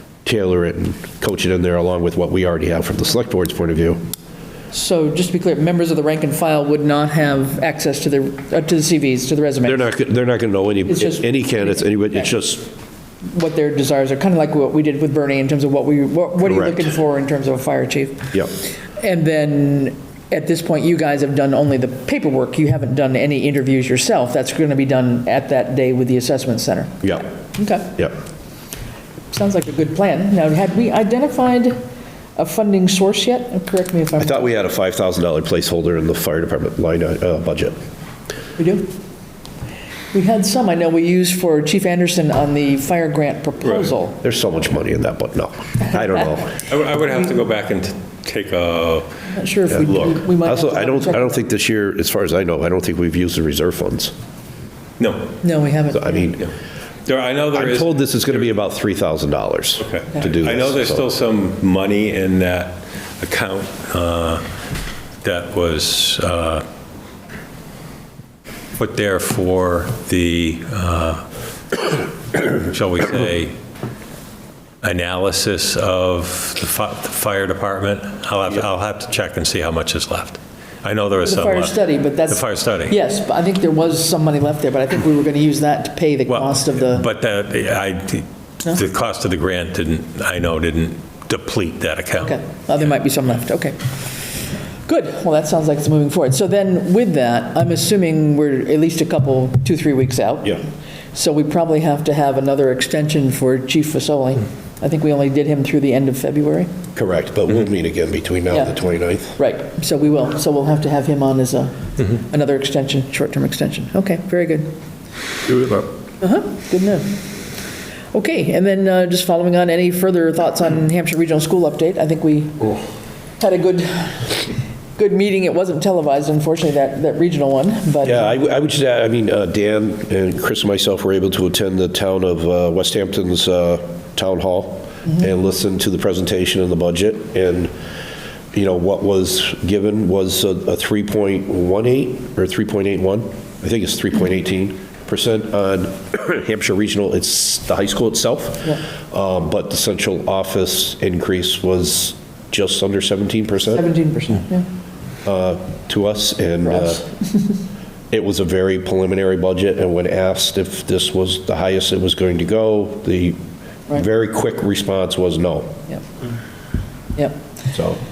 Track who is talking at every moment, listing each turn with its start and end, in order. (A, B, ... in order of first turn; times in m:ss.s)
0:00.2-0:04.0 A
0:04.7-0:09.9 B
0:09.6-0:12.6 A
0:10.9-0:12.3 B
0:13.2-0:18.3 B
0:16.4-0:16.9 A
0:19.0-0:28.0 B
0:29.3-0:31.8 B
0:32.4-0:34.5 B
0:34.2-0:37.8 A
0:38.6-0:38.9 B
0:40.1-0:44.2 B
0:44.2-0:46.6 A
0:46.6-0:49.1 C
0:49.3-0:51.4 B
0:49.7-0:54.1 A
0:55.0-0:55.3 C
0:55.4-0:56.1 B
0:55.9-0:56.5 A
0:57.0-0:58.4 C
0:57.5-1:01.1 A
0:59.8-1:04.4 C
1:05.2-1:06.6 C
1:08.8-1:11.2 C
1:11.8-1:13.5 C
1:14.8-1:21.7 C
1:21.2-1:27.0 B
1:22.3-1:22.9 C
1:26.3-1:32.3 C
1:32.2-1:33.8 B
1:34.9-1:40.6 B
1:41.1-1:46.7 B
1:46.9-1:49.4 A
1:48.5-1:48.7 B
1:49.4-1:54.7 B
1:56.2-1:57.1 B
1:58.1-2:02.8 B
2:03.4-2:08.4 B
2:08.0-2:17.7 A
2:18.5-2:33.8 A
2:33.7-2:34.7 B
2:35.2-2:37.0 A
2:36.6-2:37.5 B
2:38.1-2:43.4 A
2:43.9-2:45.8 A
2:47.1-2:47.4 B
2:47.7-2:48.0 A